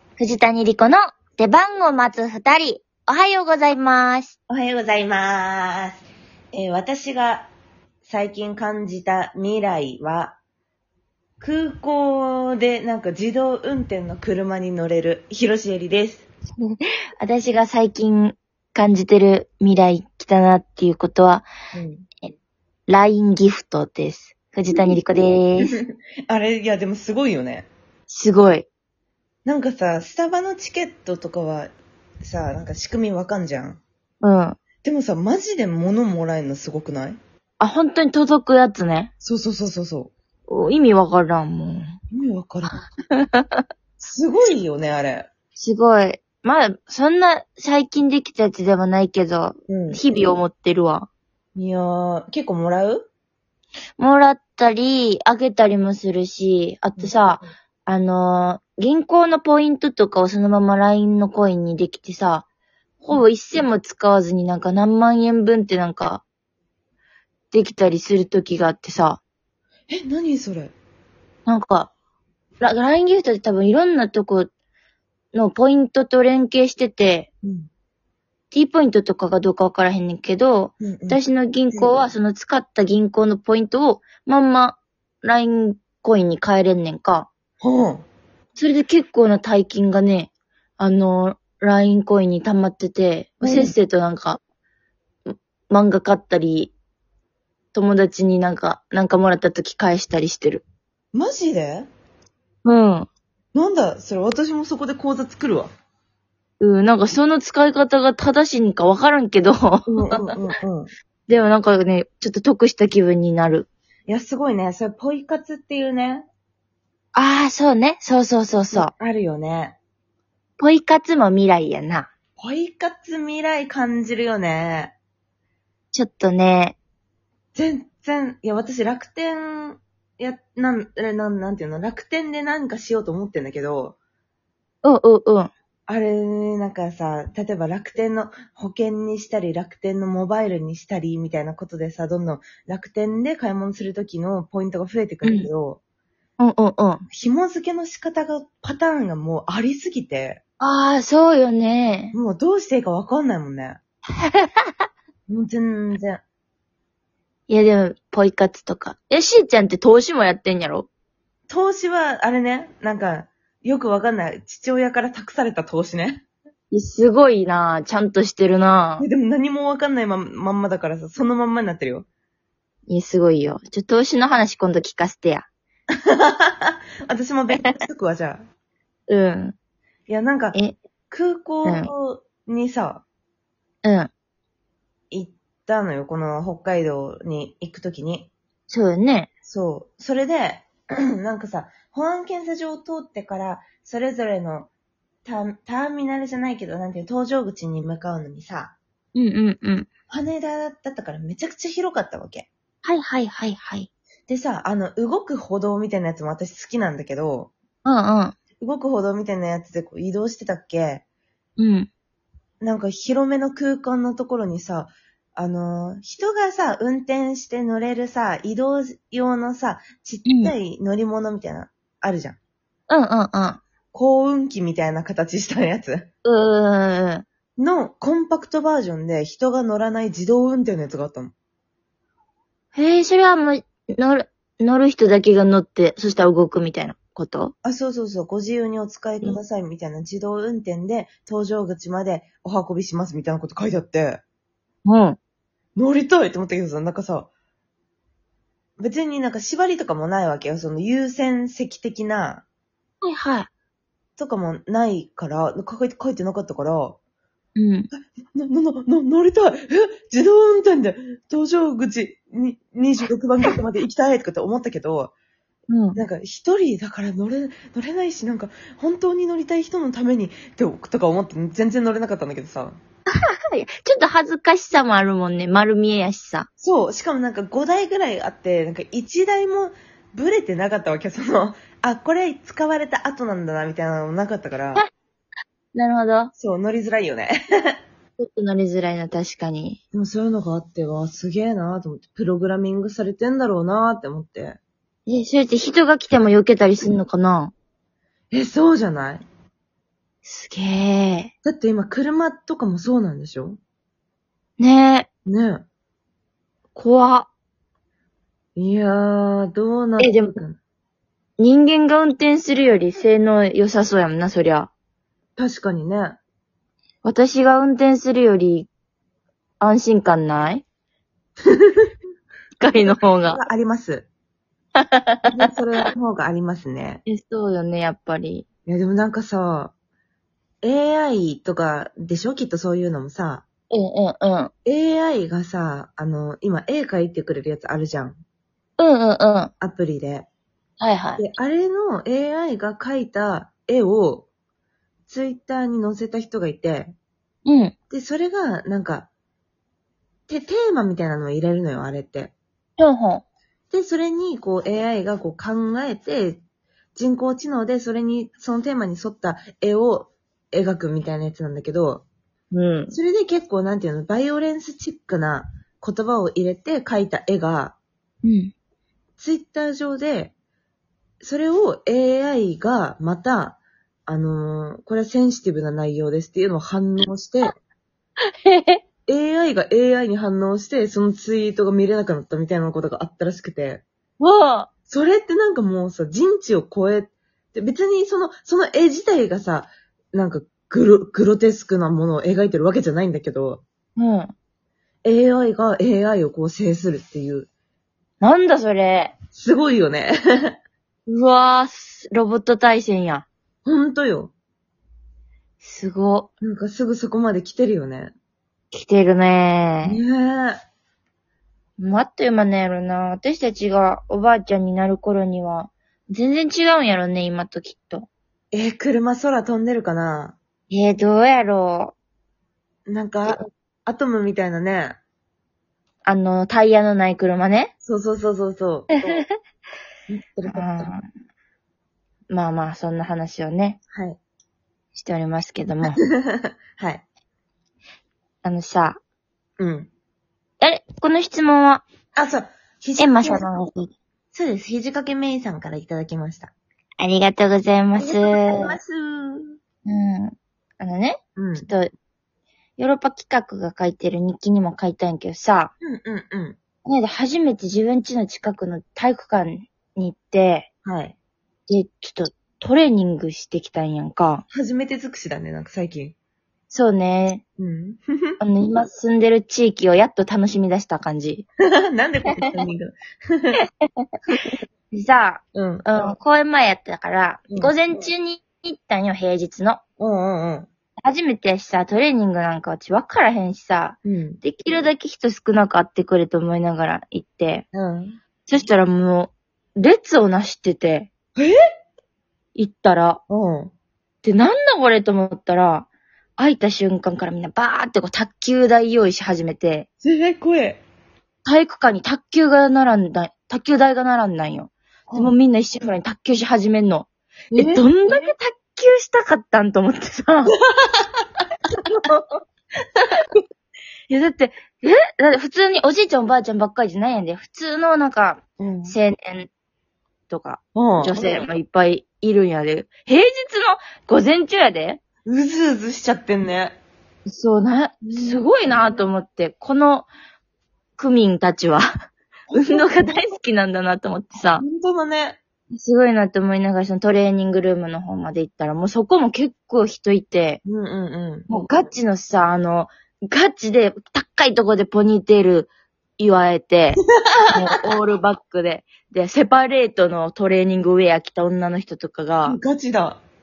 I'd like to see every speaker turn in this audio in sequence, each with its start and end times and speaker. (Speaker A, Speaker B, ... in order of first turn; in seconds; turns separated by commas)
Speaker A: 0.2-4.3, Speaker B: 4.5-7.5, Speaker B: 8.0-10.4, Speaker B: 11.4-16.3, Speaker A: 16.6-21.5, Speaker B: 21.7-22.1, Speaker A: 22.9-25.8, Speaker B: 24.7-24.9, Speaker B: 25.6-27.7, Speaker A: 28.1-28.7, Speaker B: 29.4-31.7, Speaker B: 32.2-33.8, Speaker A: 34.2-34.6, Speaker B: 34.8-37.2, Speaker A: 37.6-39.1, Speaker B: 39.2-40.1, Speaker A: 40.5-42.0, Speaker B: 42.1-42.8, Speaker A: 42.7-43.7, Speaker B: 44.0-45.3, Speaker A: 45.6-51.1, Speaker B: 49.7-50.0, Speaker B: 51.5-53.1, Speaker A: 54.0-62.5, Speaker B: 57.0-57.3, Speaker A: 63.0-66.2, Speaker A: 67.5-69.2, Speaker B: 69.9-70.7, Speaker A: 71.5-71.9, Speaker A: 72.6-74.5, Speaker A: 75.3-77.3, Speaker B: 77.4-77.7, Speaker A: 78.5-87.3, Speaker B: 80.8-81.2, Speaker B: 87.6-88.1, Speaker A: 88.6-94.4, Speaker B: 93.4-93.7, Speaker A: 95.3-96.7, Speaker A: 97.7-100.7, Speaker B: 101.1-101.9, Speaker A: 102.6-103.1, Speaker B: 103.5-105.7, Speaker A: 106.6-110.3, Speaker B: 109.9-110.9, Speaker A: 111.3-113.7, Speaker B: 114.1-116.3, Speaker A: 117.1-118.9, Speaker B: 118.7-119.8, Speaker A: 120.6-122.1, Speaker B: 122.4-125.0, Speaker A: 125.9-126.8, Speaker B: 127.5-134.0, Speaker A: 134.8-135.5, Speaker B: 135.9-145.8, Speaker A: 145.2-145.5, Speaker A: 146.4-147.1, Speaker B: 147.1-150.4, Speaker A: 150.6-152.2, Speaker B: 152.1-153.8, Speaker A: 154.2-154.9, Speaker B: 155.3-156.2, Speaker A: 157.5-160.9, Speaker B: 161.5-166.2, Speaker A: 166.7-169.1, Speaker B: 169.0-172.1, Speaker A: 172.9-175.5, Speaker B: 175.9-178.4, Speaker A: 179.1-179.6, Speaker B: 180.1-180.6, Speaker B: 181.1-183.0, Speaker A: 181.7-181.9, Speaker A: 183.8-184.1, Speaker B: 185.1-188.3, Speaker A: 188.7-189.3, Speaker B: 189.4-194.7, Speaker B: 195.2-198.8, Speaker A: 199.2-199.9, Speaker B: 200.1-202.5, Speaker A: 202.8-203.9, Speaker B: 204.3-207.5, Speaker A: 207.8-208.4, Speaker B: 208.6-211.0, Speaker A: 211.6-211.9, Speaker B: 212.6-222.4, Speaker A: 220.3-220.5, Speaker A: 222.9-223.6, Speaker B: 223.9-226.1, Speaker A: 226.2-227.2, Speaker B: 227.6-231.3, Speaker A: 232.8-237.5, Speaker B: 237.6-244.2, Speaker A: 244.8-245.2, Speaker B: 245.8-247.3, Speaker B: 248.8-252.4, Speaker A: 253.0-253.5, Speaker B: 254.2-257.0, Speaker A: 257.6-257.9, Speaker B: 257.9-265.1, Speaker A: 265.7-266.0, Speaker B: 265.9-272.8, Speaker A: 273.1-276.5, Speaker B: 276.6-284.8, Speaker A: 285.8-286.3, Speaker B: 286.4-287.4, Speaker A: 288.2-289.8, Speaker B: 289.9-294.6, Speaker A: 295.1-297.5, Speaker B: 298.3-299.2, Speaker A: 300.2-301.3, Speaker B: 301.4-303.6, Speaker A: 304.6-305.1, Speaker B: 305.2-305.7, Speaker A: 306.8-307.3, Speaker B: 308.6-310.6, Speaker A: 310.0-310.4, Speaker A: 311.4-314.7, Speaker B: 315.4-316.2, Speaker A: 317.0-318.7, Speaker A: 319.6-320.6, Speaker B: 321.4-321.9, Speaker A: 322.6-323.4, Speaker B: 322.7-324.1, Speaker A: 324.8-325.5, Speaker B: 325.2-327.0, Speaker A: 327.1-328.4, Speaker B: 328.7-329.7, Speaker B: 330.6-333.4, Speaker A: 333.7-334.5, Speaker B: 334.7-338.2, Speaker A: 338.8-339.5, Speaker B: 339.6-340.3, Speaker A: 340.8-341.2, Speaker B: 341.2-344.3, Speaker B: 345.1-346.9, Speaker A: 347.4-347.8, Speaker B: 347.9-349.1, Speaker B: 350.3-352.3, Speaker A: 352.8-353.2, Speaker B: 353.7-356.4, Speaker B: 356.9-362.1, Speaker A: 362.5-363.0, Speaker B: 362.9-367.8, Speaker A: 368.2-368.5, Speaker B: 369.2-370.3, Speaker B: 371.2-377.6, Speaker A: 378.3-378.8, Speaker B: 379.1-383.8, Speaker A: 384.2-384.7, Speaker B: 384.9-393.6, Speaker A: 393.9-394.3, Speaker B: 395.0-397.5, Speaker A: 398.2-399.1, Speaker B: 399.3-400.6, Speaker A: 401.1-403.2, Speaker B: 403.6-404.3, Speaker A: 405.6-406.3, Speaker B: 406.4-408.1, Speaker A: 408.7-410.0, Speaker B: 409.8-410.6, Speaker A: 411.8-418.1, Speaker B: 418.5-420.4, Speaker A: 420.7-421.9, Speaker B: 422.9-425.0, Speaker A: 426.1-427.7, Speaker B: 427.8-429.2, Speaker A: 428.9-429.3, Speaker B: 430.1-430.9, Speaker A: 430.5-431.0, Speaker A: 432.3-433.8, Speaker B: 433.9-434.2, Speaker A: 434.9-436.0, Speaker B: 436.0-437.0, Speaker A: 438.4-439.0, Speaker B: 439.6-439.9, Speaker A: 440.6-441.8, Speaker B: 442.1-443.4, Speaker A: 443.0-443.9, Speaker B: 444.3-446.5, Speaker A: 447.0-448.8, Speaker B: 448.0-449.6, Speaker A: 449.9-451.9, Speaker B: 451.4-451.7, Speaker A: 452.8-455.7, Speaker B: 455.8-456.6, Speaker A: 456.9-460.7, Speaker B: 460.9-461.2, Speaker A: 461.7-464.4, Speaker B: 464.5-466.1, Speaker A: 466.7-467.4, Speaker B: 467.6-468.4, Speaker A: 468.4-471.5, Speaker B: 471.9-473.6, Speaker A: 472.3-472.7, Speaker A: 473.6-479.8, Speaker B: 475.6-475.9, Speaker B: 480.0-480.7, Speaker A: 481.0-487.7, Speaker B: 484.1-484.4, Speaker B: 487.7-488.2, Speaker A: 488.4-491.1, Speaker A: 492.6-493.2, Speaker B: 493.3-493.7, Speaker A: 494.2-495.9, Speaker A: 496.4-499.9, Speaker B: 500.0-500.8, Speaker A: 501.4-510.6, Speaker B: 507.5-508.3, Speaker A: 511.7-512.4, Speaker A: 513.0-513.4, Speaker A: 514.1-519.5, Speaker B: 518.6-519.0, Speaker A: 520.3-525.0, Speaker B: 520.8-521.5, Speaker B: 525.2-526.8, Speaker A: 527.3-530.1, Speaker B: 528.0-529.0, Speaker A: 531.0-531.9, Speaker B: 532.5-533.2, Speaker A: 532.5-534.6, Speaker B: 534.6-535.4, Speaker A: 535.7-540.6, Speaker B: 540.6-541.7, Speaker A: 541.5-547.0, Speaker B: 547.0-547.8, Speaker A: 547.5-552.6, Speaker B: 552.5-553.2